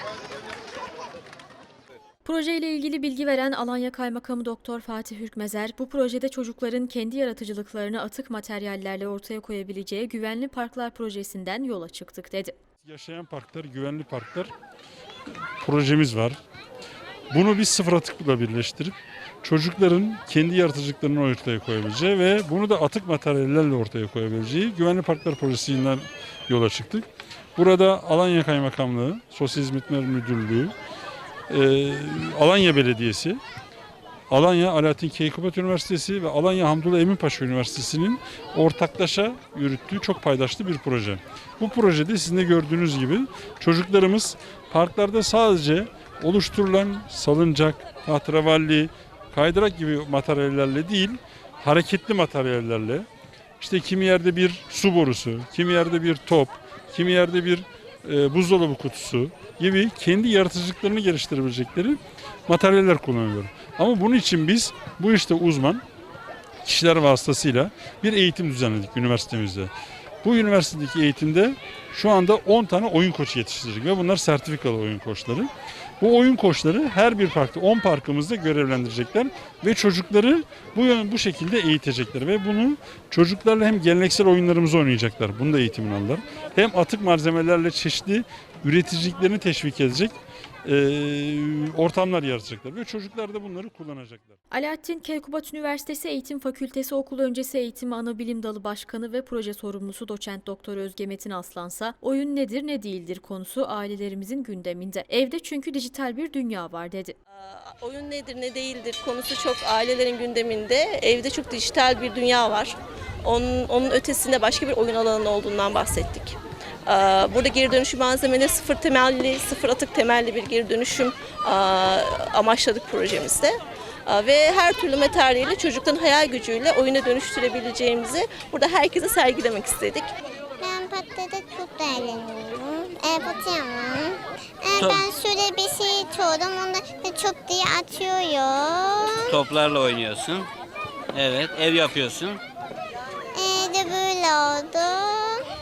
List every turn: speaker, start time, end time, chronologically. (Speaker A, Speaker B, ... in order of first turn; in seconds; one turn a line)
Speaker A: 2.2-12.5
Speaker B: 12.8-14.5
Speaker B: 15.6-16.4
Speaker B: 17.3-30.7
Speaker B: 31.5-33.4
Speaker B: 34.3-53.1
Speaker B: 53.6-65.8
Speaker B: 66.6-69.7
Speaker B: 70.2-94.3
Speaker A: 94.5-107.1
Speaker C: 107.3-130.1
Speaker D: 130.6-139.4
Speaker E: 139.3-140.5
Speaker E: 141.1-142.4
Speaker D: 143.3-145.4